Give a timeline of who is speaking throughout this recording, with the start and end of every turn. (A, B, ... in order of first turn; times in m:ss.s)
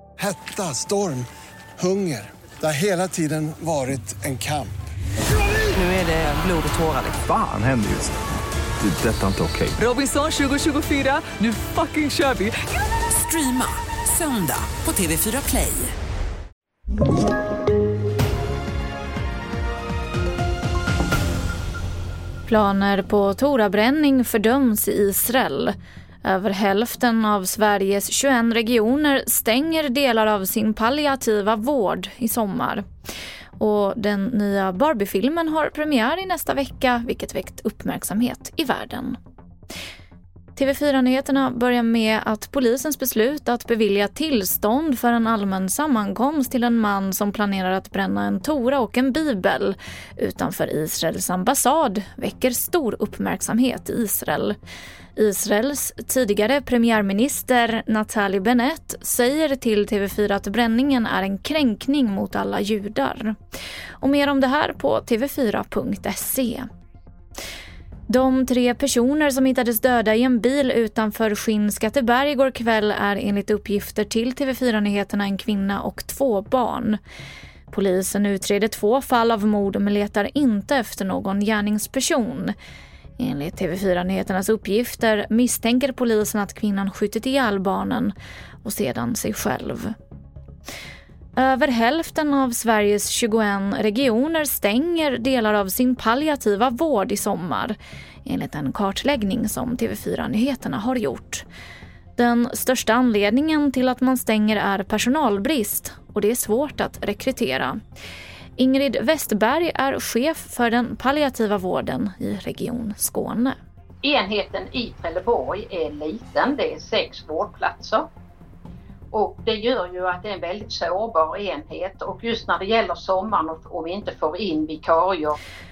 0:00.2-0:01.3 A
0:01.8-0:04.7 A
0:05.8-0:07.0 B
0:07.2-0:08.2 C
0:08.8-0:09.8 C
0:09.8-0:12.6 B
0:13.1-0:15.9 B
0:22.5-0:32.8 D
0:33.6-0:39.2 D
0:40.6-0:54.6 D
0:55.2-1:03.4 D
1:04.0-1:06.7 D
1:08.1-1:17.0 D
1:17.7-1:22.5 D
1:23.2-1:29.9 D
1:31.4-1:41.4 D
1:42.2-1:47.8 D
1:48.6-1:53.6 D
1:54.0-1:58.1 E
1:59.1-2:05.4 E